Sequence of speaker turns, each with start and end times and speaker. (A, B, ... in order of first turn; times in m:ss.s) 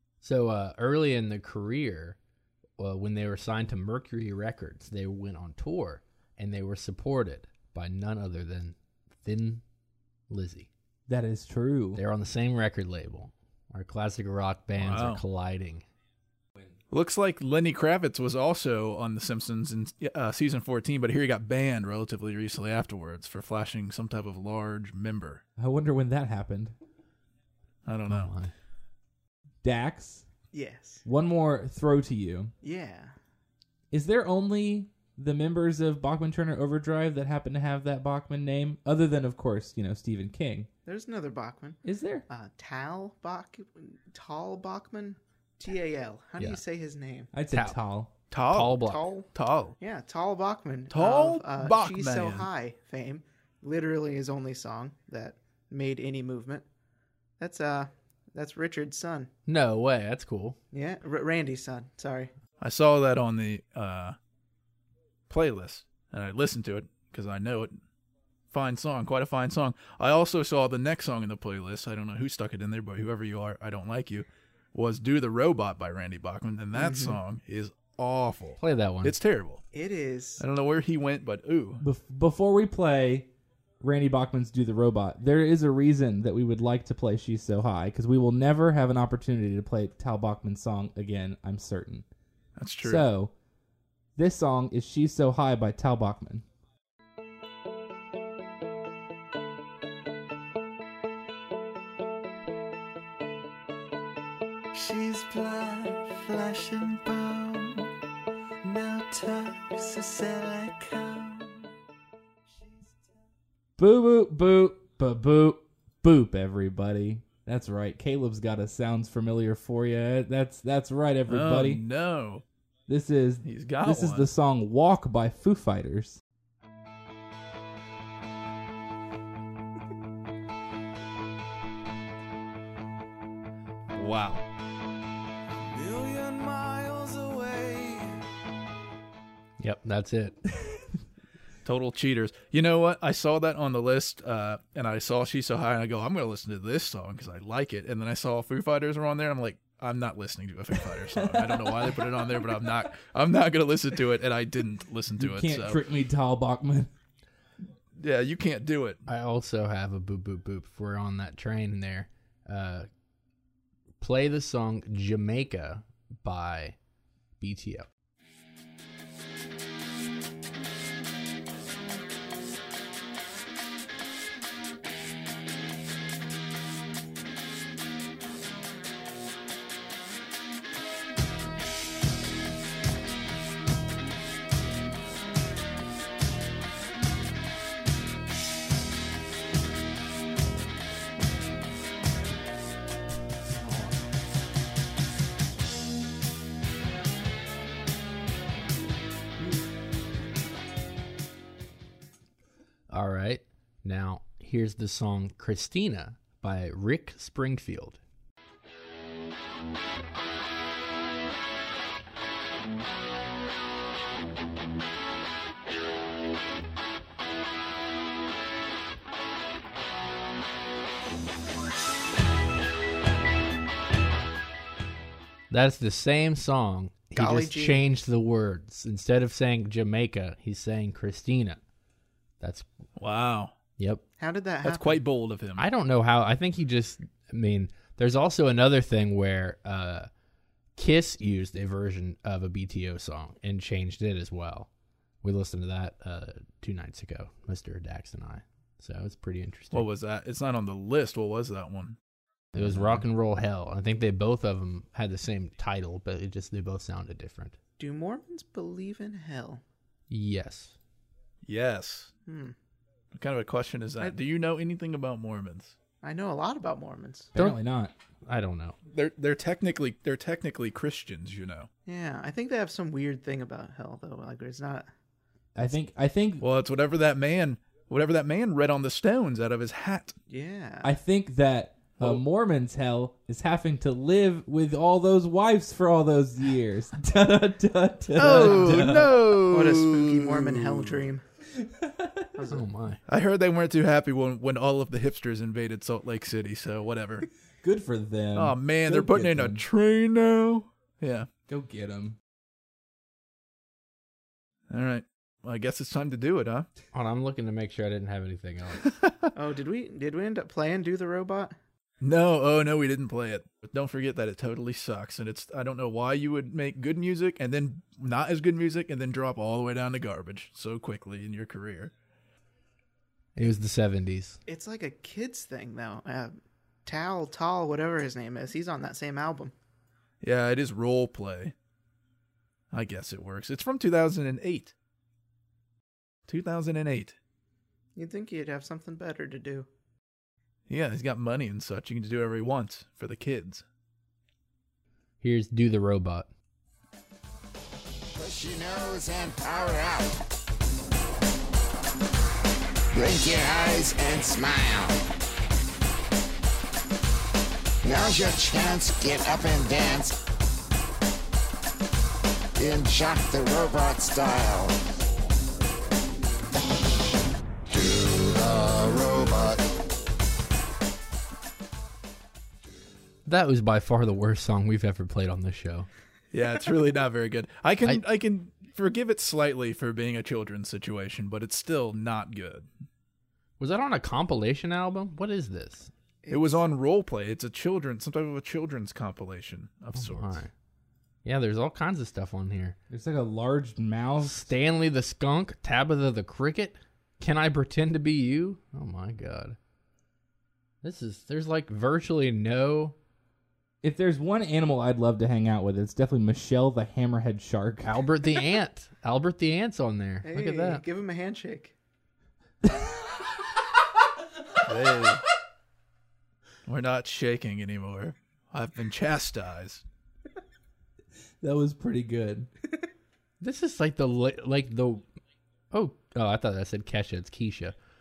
0:00.2-0:02.2 A
0:02.8-0:09.6 A
0:10.3-0:10.7 A
0:11.1-0:12.0 B
0:12.0-0:15.8 A
0:14.8-0:15.2 C
0:16.9-0:25.4 C
0:25.6-0:26.8 B
0:27.8-0:28.3 C
0:28.1-0:28.5 A
0:29.6-0:30.3 B
0:30.5-0:31.0 D
0:31.0-0:32.5 B
0:32.6-0:33.2 D
0:33.9-0:40.7 B
0:40.8-0:47.3 D
0:41.8-0:42.3 B
0:47.3-0:48.1 B
0:47.5-0:47.8 A
0:48.3-0:49.8 C
0:48.5-0:49.0 A
0:48.8-0:56.7 D
0:50.9-0:52.5 C
0:57.4-0:59.3 D
0:59.5-1:00.6 A
1:00.7-1:02.3 D
1:02.6-1:04.2 C
1:05.3-1:07.8 C
1:08.5-1:19.6 C
1:16.8-1:17.2 D
1:18.6-1:19.2 A
1:19.7-1:20.4 D
1:20.4-1:21.8 C
1:21.8-1:23.3 B
1:23.8-1:32.1 B
1:32.6-1:33.1 C
1:32.8-1:33.3 B
1:34.2-1:36.4 B
1:44.7-1:47.9 D
1:48.6-1:51.7 D
1:53.8-2:01.8 B
2:01.3-2:02.4 C
2:02.9-2:06.2 B
2:03.4-2:04.3 C
2:13.9-2:14.4 C
2:19.6-2:20.4 A
2:21.6-2:35.8 C
2:31.1-2:32.3 B
2:35.2-2:36.9 B
2:38.0-2:39.0 C
2:39.1-2:42.9 A
2:44.0-2:46.8 A
2:47.4-2:47.9 A
3:22.9-3:28.0 A
3:45.5-3:51.6 A
3:47.2-3:47.8 D
3:52.4-3:52.7 A
3:53.0-3:53.5 C
3:54.2-3:55.0 D
3:54.6-3:55.7 C
3:55.6-4:00.1 A
4:00.8-4:04.7 A
4:05.2-4:09.9 A
4:09.7-4:12.0 C
4:12.5-4:13.0 B
4:12.6-4:17.6 A
4:17.8-4:19.6 D
4:20.1-4:20.8 A
4:21.4-4:22.1 C
4:22.3-4:22.6 D
4:23.1-4:25.8 C
4:26.0-4:27.3 D
4:27.3-4:27.9 B
4:28.2-4:28.8 A
4:28.9-4:31.7 C
4:31.9-4:34.9 D
4:35.6-4:36.4 B
4:36.4-4:40.2 C
4:40.3-4:40.9 D
4:40.8-4:49.2 B
4:48.2-4:51.1 C
4:48.2-4:49.0 A
4:49.5-4:51.2 D
4:51.6-4:52.3 B
4:52.4-4:52.6 D
4:52.5-4:53.0 A
4:53.1-4:57.3 C
4:57.6-4:59.6 B
4:58.4-5:01.3 C
5:01.5-5:02.2 B
5:04.7-5:06.7 C
5:06.9-5:09.0 A
5:08.8-5:09.3 C
5:09.4-5:11.6 D
5:12.0-5:21.9 C
5:23.4-5:24.4 A
5:24.5-5:29.5 D
5:30.2-5:31.5 C
5:32.7-5:34.7 C
5:36.3-5:37.2 C
5:38.0-5:39.7 D
5:40.7-5:43.6 C
5:45.2-5:46.3 A
5:48.2-5:50.2 E
5:52.9-5:55.0 E
5:57.8-6:00.2 E
6:02.6-6:04.8 E
6:07.7-6:09.6 E
6:13.3-6:15.9 A
6:16.3-6:22.7 C
6:23.6-6:25.9 A
6:26.2-6:26.6 D
6:26.3-6:30.4 C
6:29.9-6:30.5 A
6:31.2-6:32.8 A
6:32.9-6:34.5 B
6:34.2-6:39.6 A
6:40.8-6:43.0 A
6:43.8-6:48.0 B
6:47.8-6:50.8 A
6:50.2-6:51.8 D
6:52.6-6:53.0 B
6:54.6-6:55.2 C
6:56.7-6:59.8 C
7:01.4-7:02.5 B
7:03.4-7:05.0 A
7:05.7-7:07.8 A